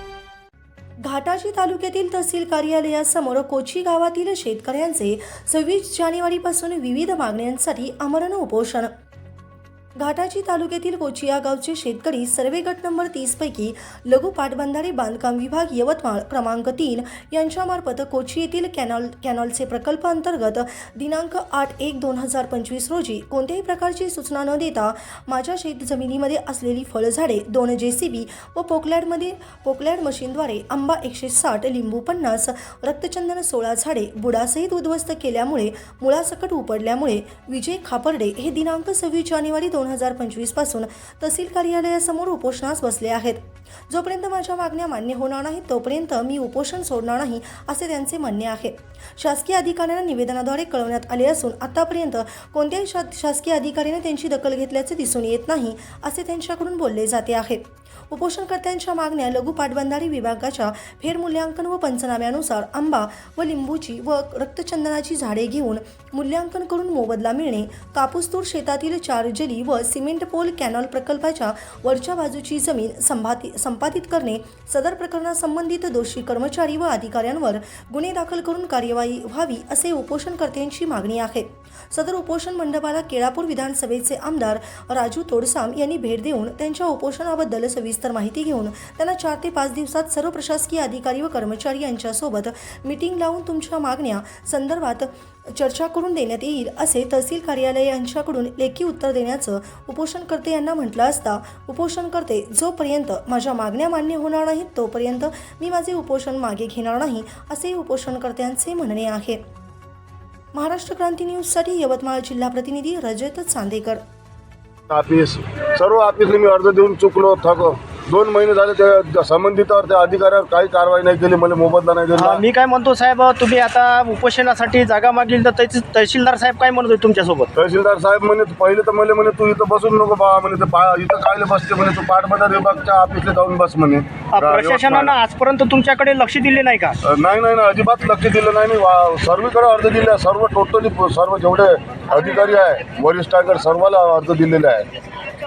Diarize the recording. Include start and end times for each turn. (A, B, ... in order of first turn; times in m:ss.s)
0:01.0-0:08.9 A
0:10.0-1:49.4 A
1:50.5-1:54.0 A
1:54.9-2:02.4 B
2:02.2-2:07.5 C
2:07.5-2:15.2 B
2:14.3-2:17.0 C
2:17.0-2:24.8 B